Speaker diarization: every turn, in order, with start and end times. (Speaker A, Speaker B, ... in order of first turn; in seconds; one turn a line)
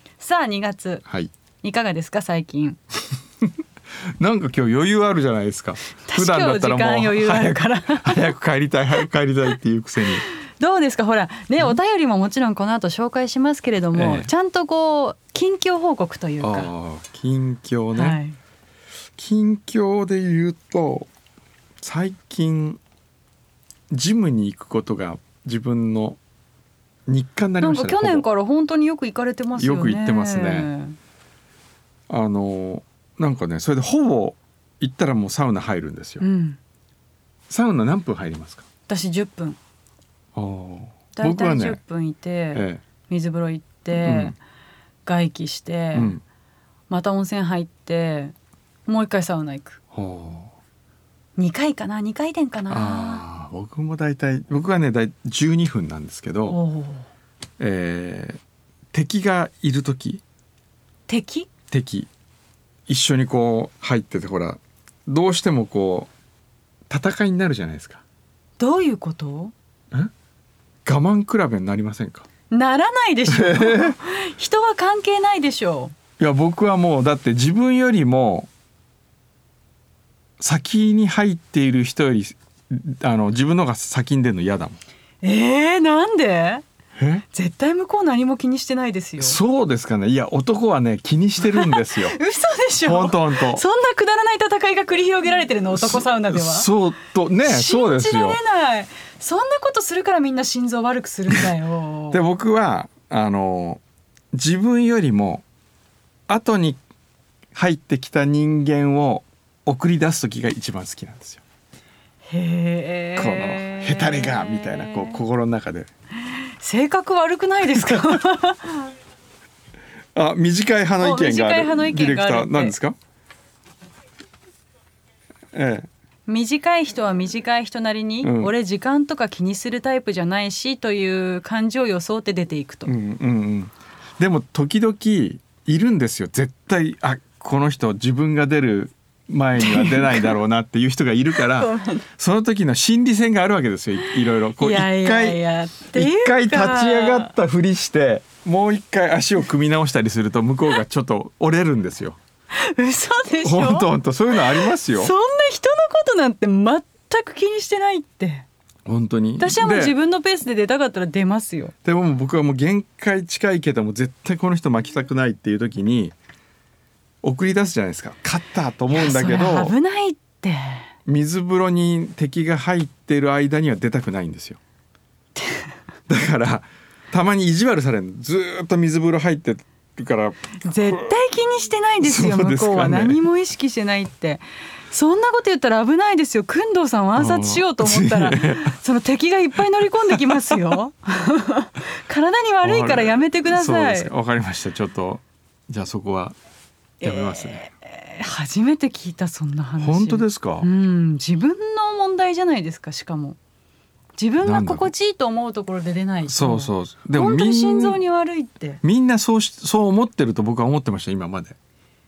Speaker A: 0.2-1.0
Speaker B: 1.0-1.3
Speaker A: 1.6-2.8
Speaker B: 4.2-10.2
Speaker A: 6.0-8.3
Speaker A: 10.2-16.7
Speaker B: 13.9-14.3
Speaker B: 16.4-18.2
Speaker A: 17.9-18.4
Speaker B: 19.2-21.1
Speaker B: 21.8-22.8
Speaker B: 23.9-26.2
Speaker B: 27.1-28.2
Speaker A: 27.6-30.9
Speaker B: 29.6-30.7
Speaker B: 32.1-36.2
Speaker A: 36.2-36.6
Speaker B: 37.5-38.6
Speaker A: 38.9-39.6
Speaker B: 40.3-41.8
Speaker A: 41.1-44.4
Speaker B: 42.5-42.8
Speaker B: 43.9-44.4
Speaker A: 45.0-46.1
Speaker B: 45.9-46.2
Speaker A: 46.9-48.3
Speaker A: 48.9-49.8
Speaker B: 49.9-50.5
Speaker A: 51.4-53.2
Speaker B: 52.7-56.6
Speaker A: 56.5-57.0
Speaker B: 57.6-58.4
Speaker B: 58.9-60.2
Speaker A: 61.1-61.5
Speaker B: 61.7-62.1
Speaker B: 62.9-66.1
Speaker B: 66.9-68.0
Speaker A: 68.6-69.5
Speaker B: 70.8-72.3
Speaker A: 72.5-75.9
Speaker B: 73.3-74.0
Speaker B: 76.2-78.5
Speaker B: 80.4-84.8
Speaker A: 85.2-86.6
Speaker B: 87.0-87.2
Speaker A: 87.3-89.4
Speaker B: 89.2-92.2
Speaker A: 91.4-96.7
Speaker B: 92.8-93.6
Speaker B: 95.7-98.4
Speaker A: 97.4-102.2
Speaker B: 102.1-103.8
Speaker B: 104.3-105.4
Speaker B: 106.3-106.8
Speaker B: 107.5-111.4
Speaker A: 112.3-115.2
Speaker B: 113.2-115.9
Speaker A: 116.3-118.9
Speaker B: 120.1-123.0
Speaker A: 121.0-122.7
Speaker B: 125.5-125.9
Speaker A: 126.3-132.9
Speaker B: 128.2-128.5
Speaker B: 132.8-145.4
Speaker A: 139.6-140.4
Speaker A: 141.3-142.1
Speaker A: 143.9-147.3
Speaker B: 145.9-152.2
Speaker A: 152.5-158.4
Speaker B: 153.4-155.1
Speaker B: 158.8-159.9
Speaker A: 159.4-161.7
Speaker B: 161.8-166.1
Speaker B: 167.2-169.7
Speaker A: 168.9-170.9
Speaker B: 171.1-174.6
Speaker B: 176.1-181.1
Speaker A: 180.6-194.1
Speaker B: 182.0-183.2
Speaker B: 187.2-188.8
Speaker B: 189.9-190.6
Speaker B: 192.6-196.3
Speaker A: 197.0-203.4
Speaker B: 197.0-197.7
Speaker B: 199.8-200.7
Speaker A: 204.2-208.8
Speaker B: 204.4-204.9
Speaker B: 206.3-208.0
Speaker B: 208.8-211.6